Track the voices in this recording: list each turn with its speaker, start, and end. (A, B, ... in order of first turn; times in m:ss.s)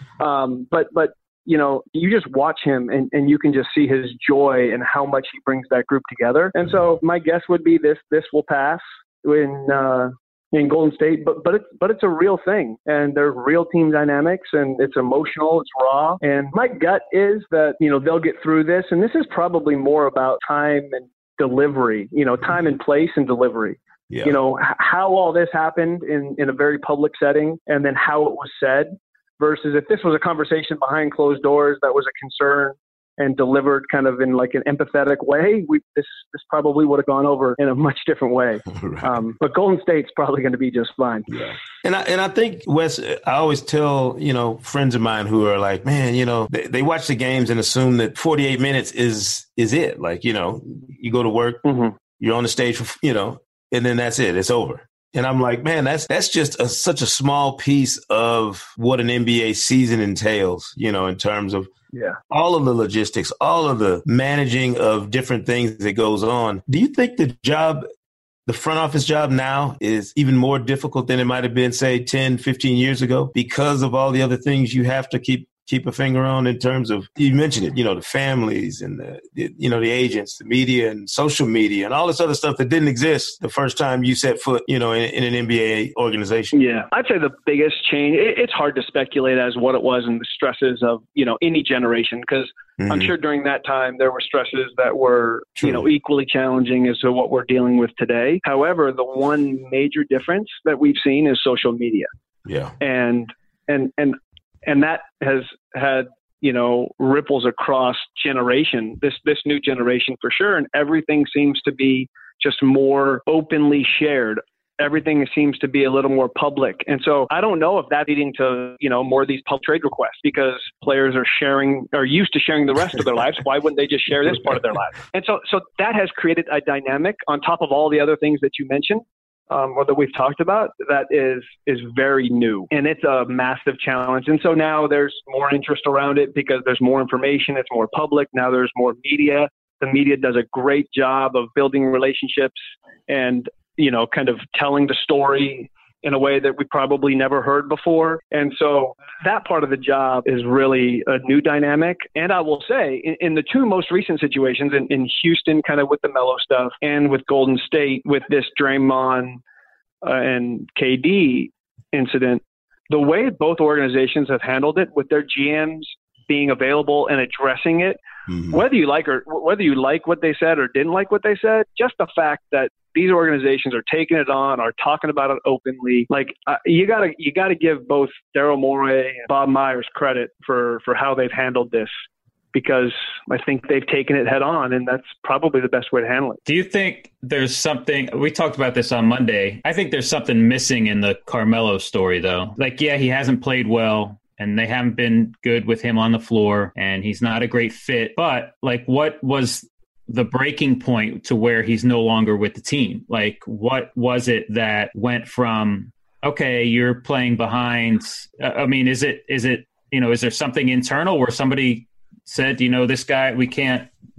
0:00.2-0:41.3 A
0:24.1-0:24.4 B
0:38.8-0:39.1 B
0:41.3-0:51.6 B
0:51.6-0:52.0 A
0:52.2-1:01.7 B
1:01.9-1:02.2 A
1:02.3-1:07.8 B
1:08.5-1:26.5 B
1:26.5-1:42.1 A
1:32.8-1:33.1 B
1:42.5-1:42.8 B
1:42.8-2:22.6 A
2:23.1-2:39.4 A
2:40.0-3:01.9 A
3:02.5-3:06.4 A
3:06.5-3:33.9 C